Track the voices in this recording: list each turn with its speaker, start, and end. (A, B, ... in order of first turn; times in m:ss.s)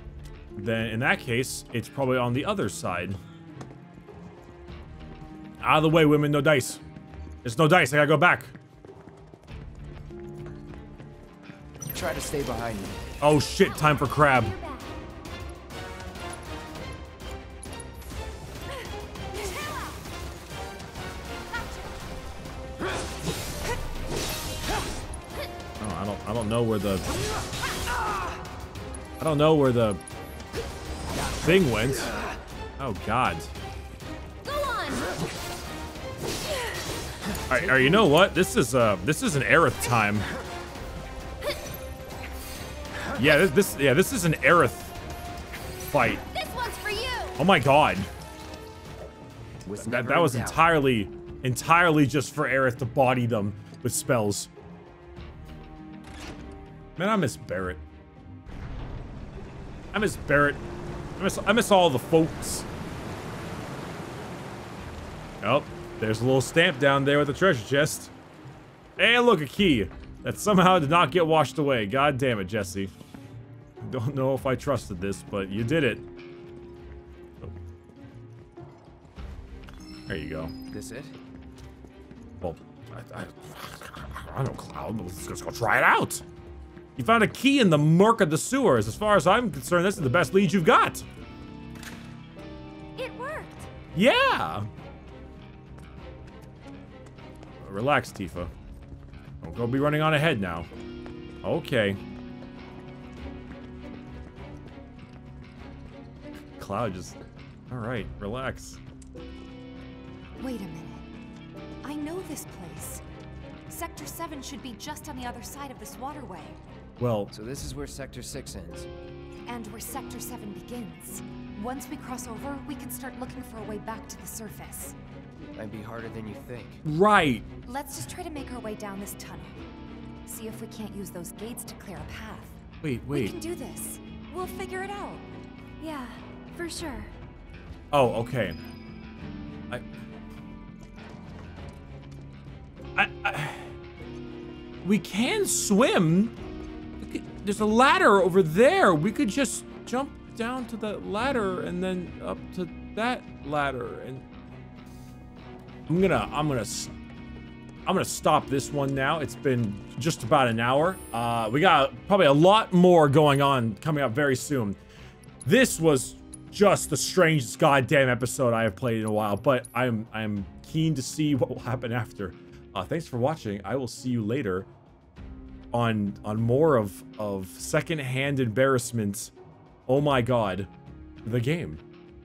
0:00.6-0:03.2 A
0:05.6-0:06.8 A
0:07.4-0:08.5 A
0:11.9-0:13.0 B
0:13.2-0:14.5 A
0:14.0-0:14.9 C
0:19.4-0:19.9 C
0:25.8-0:27.1 A
0:29.2-0:30.0 A
0:31.4-0:32.1 A
0:32.8-0:33.5 A
0:34.4-0:35.1 C
0:37.5-0:40.3 A
0:43.2-0:45.0 A
0:45.8-0:46.2 A
0:46.3-0:47.4 C
0:47.4-0:48.1 A
0:49.6-0:50.7 B
0:49.8-0:54.5 A
0:57.0-0:57.8 A
0:59.9-1:00.6 A
1:01.2-1:02.7 A
1:05.4-1:08.1 A
1:09.0-1:12.9 A
1:13.8-1:16.0 A
1:20.1-1:20.5 A
1:20.7-1:21.1 B
1:22.4-1:26.2 A
1:27.0-1:31.0 A
1:33.0-1:33.7 C
1:34.0-1:34.7 A
1:37.6-1:38.5 A
1:39.4-1:40.7 A
1:41.4-1:42.0 A
1:46.6-1:47.2 A
1:47.7-1:48.8 A
1:50.4-1:51.1 D
1:51.8-1:53.0 D
1:53.7-1:56.6 D
1:57.0-1:57.3 A
1:57.3-1:58.9 B
1:59.5-2:05.0 D
2:05.5-2:06.8 B
2:06.8-2:07.5 A
2:07.6-2:09.6 D
2:10.3-2:15.3 D
2:12.8-2:13.4 A
2:15.8-2:17.1 C
2:17.9-2:18.6 A
2:23.0-2:23.7 A
2:24.8-2:26.3 A
2:27.0-2:34.2 A
2:35.9-2:36.9 A
2:37.8-2:44.8 A
2:45.4-2:54.7 A
2:55.7-2:59.3 A
2:59.9-3:00.7 A
3:01.2-3:01.8 A